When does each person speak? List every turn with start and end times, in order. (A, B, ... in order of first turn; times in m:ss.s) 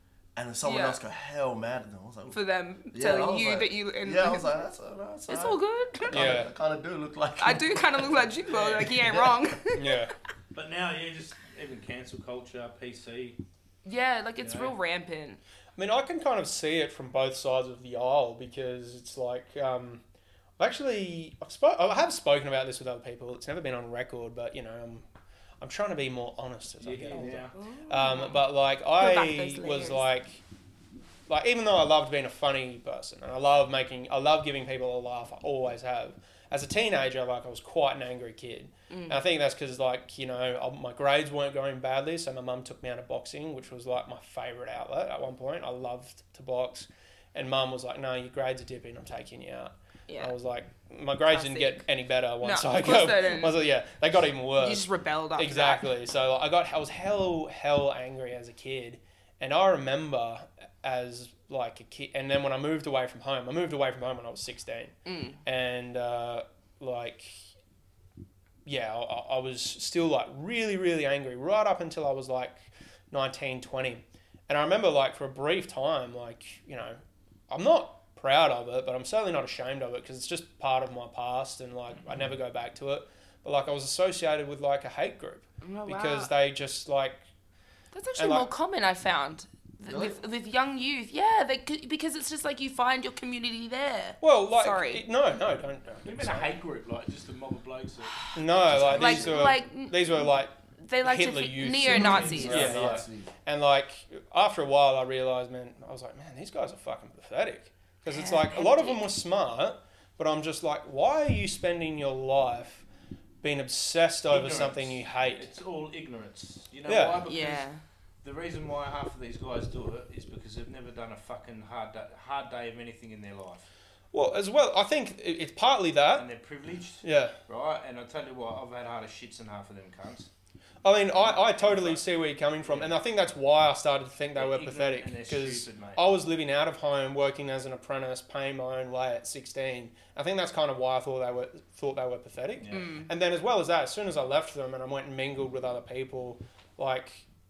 0:00.4-0:02.4 A
0:00.6-0:01.0 B
0:02.3-0:04.6 B
0:02.9-0:08.2 A
0:05.3-0:06.4 B
0:06.1-0:06.5 C
0:07.4-0:10.0 B
0:08.5-0:09.1 D
0:09.7-0:10.1 C
0:10.5-0:13.4 D
0:13.8-0:15.4 B
0:14.4-0:14.7 D
0:15.8-0:20.0 C
0:20.6-0:25.0 C
0:25.6-0:30.4 C
0:26.8-0:27.6 D
0:27.6-0:28.4 B
0:29.0-0:30.1 B
0:31.3-1:07.4 C
0:38.9-0:39.2 B
0:51.3-0:51.8 B
0:52.4-0:53.6 B
0:54.6-0:55.9 B
1:05.1-1:05.4 B
1:08.6-1:27.2 C
1:25.6-1:26.3 B
1:27.9-1:35.0 B
1:28.2-1:28.5 C
1:29.9-1:30.2 A
1:34.2-1:36.5 C
1:36.0-1:39.2 D
1:38.4-1:52.8 C
1:38.8-1:42.7 B
1:41.9-1:43.1 D
1:42.1-1:43.3 A
1:48.1-1:49.0 B
1:53.4-1:55.5 C
1:54.3-1:57.7 D
1:56.9-1:57.2 C
1:57.2-1:57.8 B
1:58.2-2:03.7 D
2:04.1-2:06.3 C
2:06.2-2:10.3 D
2:07.0-2:07.4 C
2:10.8-2:27.2 C
2:11.2-2:12.1 D
2:12.6-2:12.9 D
2:14.4-2:16.0 D
2:22.6-2:23.0 D
2:22.7-2:23.0 B